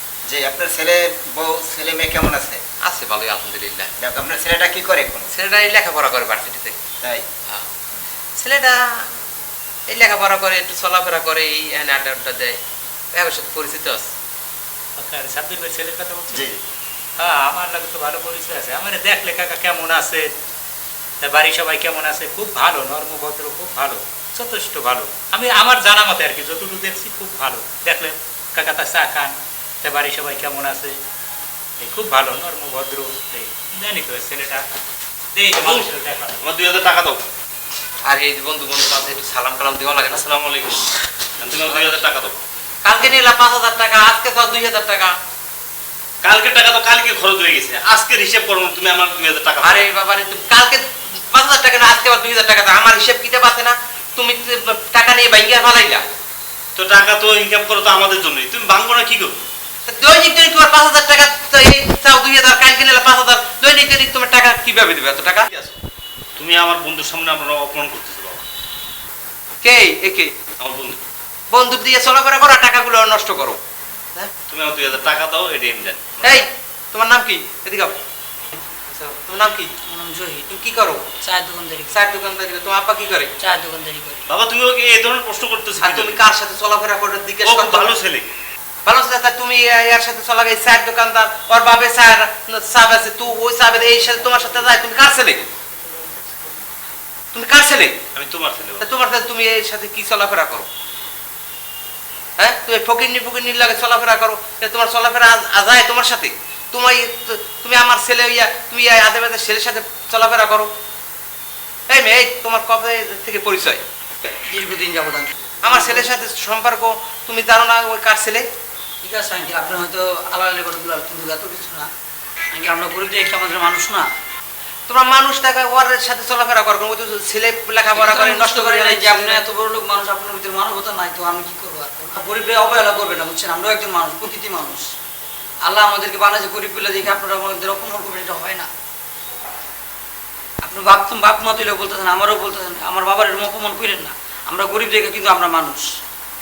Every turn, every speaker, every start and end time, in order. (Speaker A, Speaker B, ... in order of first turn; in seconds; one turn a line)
Speaker A: 0.2-2.6
Speaker B: 2.8-3.9
Speaker A: 4.0-5.3
Speaker B: 5.3-6.8
Speaker B: 8.4-9.1
Speaker B: 9.9-12.6
Speaker B: 13.1-14.1
Speaker C: 15.0-16.5
Speaker A: 16.3-16.6
Speaker C: 17.2-20.3
Speaker C: 21.2-30.9
Speaker C: 31.8-34.6
Speaker C: 35.3-36.4
Speaker D: 35.6-35.9
Speaker D: 36.4-37.2
Speaker B: 38.1-40.2
Speaker D: 40.1-42.4
Speaker B: 41.6-42.0
Speaker B: 42.8-45.1
Speaker D: 46.2-49.9
Speaker B: 49.6-56.0
Speaker D: 56.8-59.4
Speaker B: 59.9-65.5
Speaker D: 65.5-65.8
Speaker D: 66.4-68.4
Speaker B: 69.6-70.3
Speaker D: 70.6-71.0
Speaker B: 71.5-73.6
Speaker D: 74.5-76.4
Speaker B: 76.2-78.0
Speaker B: 78.9-79.7
Speaker E: 79.9-80.5
Speaker B: 80.5-81.0
Speaker E: 81.2-81.9
Speaker B: 81.9-83.3
Speaker E: 83.4-84.2
Speaker D: 84.3-86.2
Speaker B: 85.8-88.0
Speaker D: 87.4-88.3
Speaker B: 88.8-95.4
Speaker B: 97.3-98.0
Speaker D: 98.1-98.9
Speaker B: 98.8-100.7
Speaker B: 102.4-110.7
Speaker B: 111.9-113.8
Speaker E: 114.5-116.1
Speaker B: 115.6-118.5
Speaker E: 119.0-121.9
Speaker E: 122.5-124.1
Speaker B: 124.9-129.4
Speaker E: 127.9-134.9
Speaker E: 135.6-138.7
Speaker E: 140.6-145.9